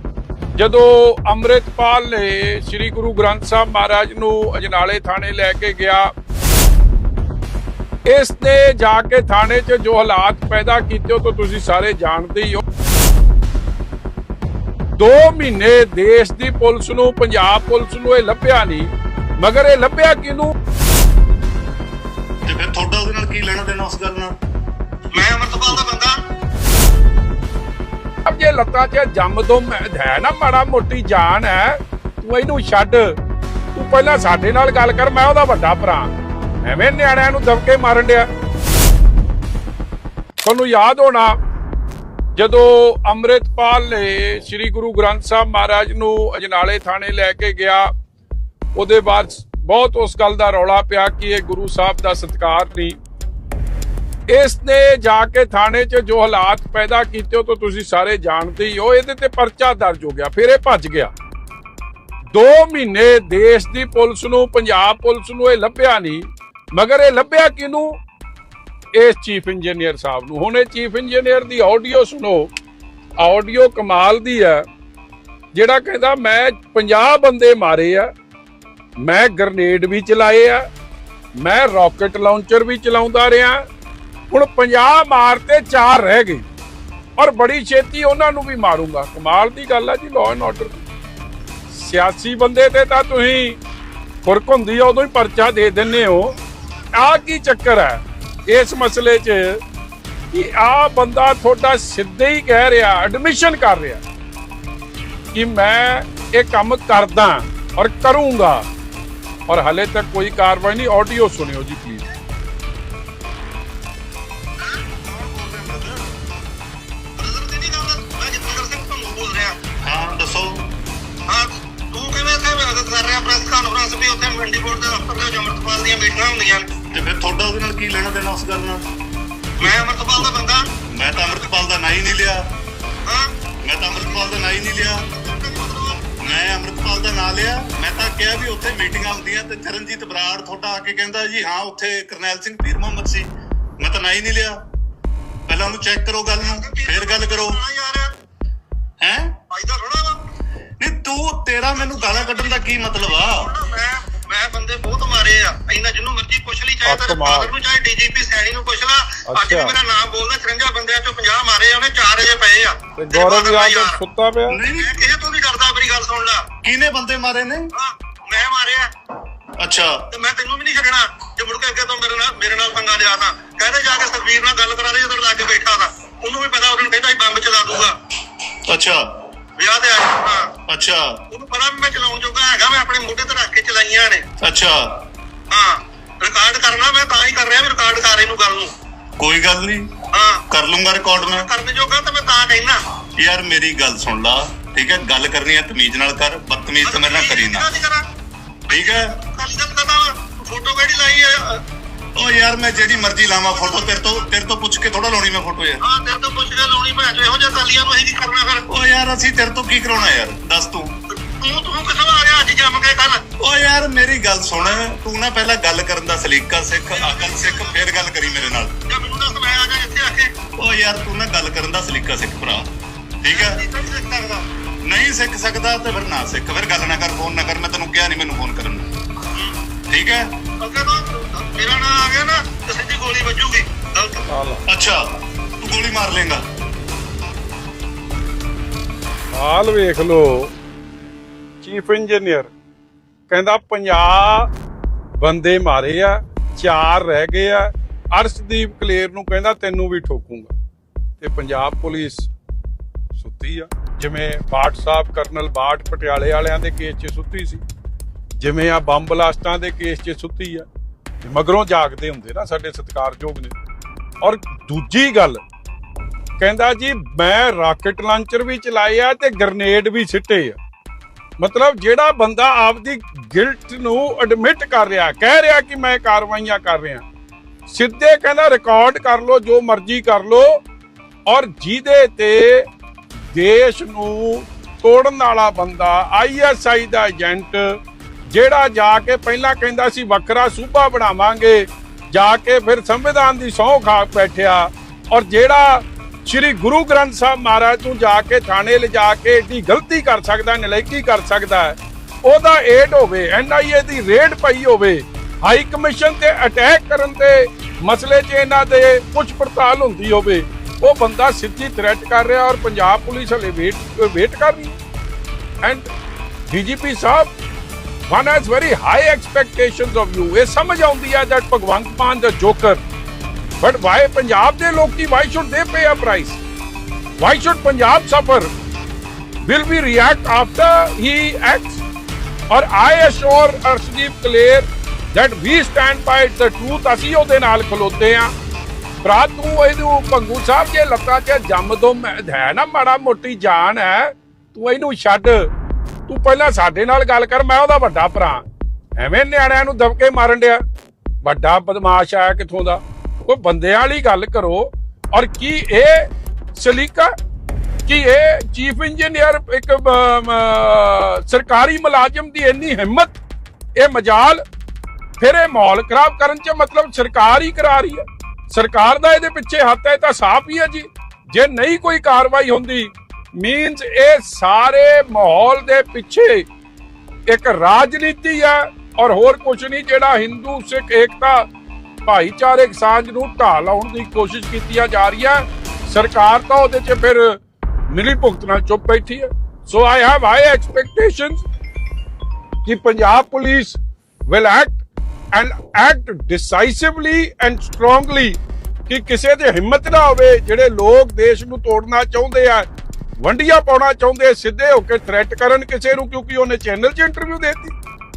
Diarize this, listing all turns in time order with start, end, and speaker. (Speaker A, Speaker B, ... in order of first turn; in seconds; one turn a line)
Speaker A: 0.6-6.1
Speaker A: 8.1-12.6
Speaker A: 15.0-20.5
Speaker B: 22.4-24.3
Speaker C: 25.1-26.2
Speaker A: 28.2-33.1
Speaker A: 33.7-38.3
Speaker A: 40.4-41.4
Speaker A: 42.4-47.9
Speaker A: 48.7-53.0
Speaker A: 54.3-61.1
Speaker A: 62.3-68.0
Speaker A: 68.9-72.5
Speaker A: 73.2-74.6
Speaker A: 75.5-78.1
Speaker A: 79.0-80.6
Speaker A: 81.4-83.6
Speaker A: 84.3-86.5
Speaker A: 87.2-90.8
Speaker A: 91.7-93.6
Speaker A: 94.2-96.3
Speaker A: 96.9-99.6
Speaker A: 100.3-104.0
Speaker A: 105.3-108.7
Speaker A: 109.5-112.0
Speaker B: 115.0-116.1
Speaker C: 117.2-119.6
Speaker B: 119.8-120.7
Speaker C: 121.3-126.7
Speaker B: 126.9-128.8
Speaker C: 129.6-131.9
Speaker B: 129.6-130.3
Speaker B: 130.9-132.4
Speaker C: 133.1-133.3
Speaker B: 133.6-135.1
Speaker C: 133.9-136.2
Speaker B: 136.2-143.3
Speaker B: 143.8-144.6
Speaker B: 145.5-147.6
Speaker C: 146.4-148.1
Speaker B: 149.0-149.3
Speaker C: 149.5-150.2
Speaker B: 150.8-153.5
Speaker C: 151.7-164.0
Speaker A: 156.8-157.5
Speaker A: 159.3-159.7
Speaker A: 162.9-164.6
Speaker B: 164.5-164.9
Speaker C: 164.7-166.4
Speaker B: 166.6-167.7
Speaker C: 167.7-168.9
Speaker B: 169.6-170.1
Speaker C: 170.1-177.9
Speaker B: 178.7-179.0
Speaker C: 179.6-180.5
Speaker B: 180.7-181.2
Speaker C: 181.3-184.2
Speaker B: 184.4-184.8
Speaker C: 185.5-188.7
Speaker B: 189.2-189.9
Speaker C: 190.1-190.4
Speaker B: 190.5-191.5
Speaker C: 191.2-192.8
Speaker B: 193.2-197.7
Speaker C: 196.8-198.0
Speaker C: 198.7-201.6
Speaker B: 198.7-199.1
Speaker B: 202.2-205.8
Speaker C: 203.0-204.3
Speaker C: 205.8-208.6
Speaker B: 208.7-210.9
Speaker C: 211.1-213.2
Speaker B: 213.4-218.7
Speaker C: 216.9-217.9
Speaker C: 218.9-220.3
Speaker B: 220.6-222.7
Speaker B: 223.2-223.6
Speaker C: 223.2-224.4
Speaker B: 224.8-228.9
Speaker C: 229.3-229.6
Speaker B: 229.9-230.3
Speaker C: 230.6-234.2
Speaker A: 234.3-234.6
Speaker B: 234.7-235.0
Speaker B: 235.6-236.4
Speaker A: 239.3-240.5
Speaker A: 241.6-242.5
Speaker A: 243.3-244.5
Speaker A: 245.2-250.5
Speaker A: 251.2-252.3
Speaker A: 253.2-257.6
Speaker A: 258.4-260.7
Speaker A: 261.2-263.5
Speaker A: 264.2-265.4
Speaker A: 266.4-270.6
Speaker A: 271.4-277.0
Speaker A: 277.7-280.6
Speaker A: 281.3-282.6
Speaker A: 283.3-287.8
Speaker A: 288.3-314.8
Speaker A: 315.6-315.9
Speaker A: 316.5-317.3
Speaker A: 318.1-322.8
Speaker A: 323.6-326.4
Speaker A: 327.2-328.5
Speaker A: 329.4-331.8
Speaker A: 332.5-338.3
Speaker A: 339.0-345.5
Speaker A: 346.1-348.4
Speaker A: 349.0-350.6
Speaker A: 351.2-357.1
Speaker A: 357.9-363.2
Speaker A: 363.8-364.4
Speaker A: 365.2-376.4
Speaker A: 377.3-381.5
Speaker A: 382.0-391.4
Speaker A: 392.6-402.7
Speaker A: 403.2-407.7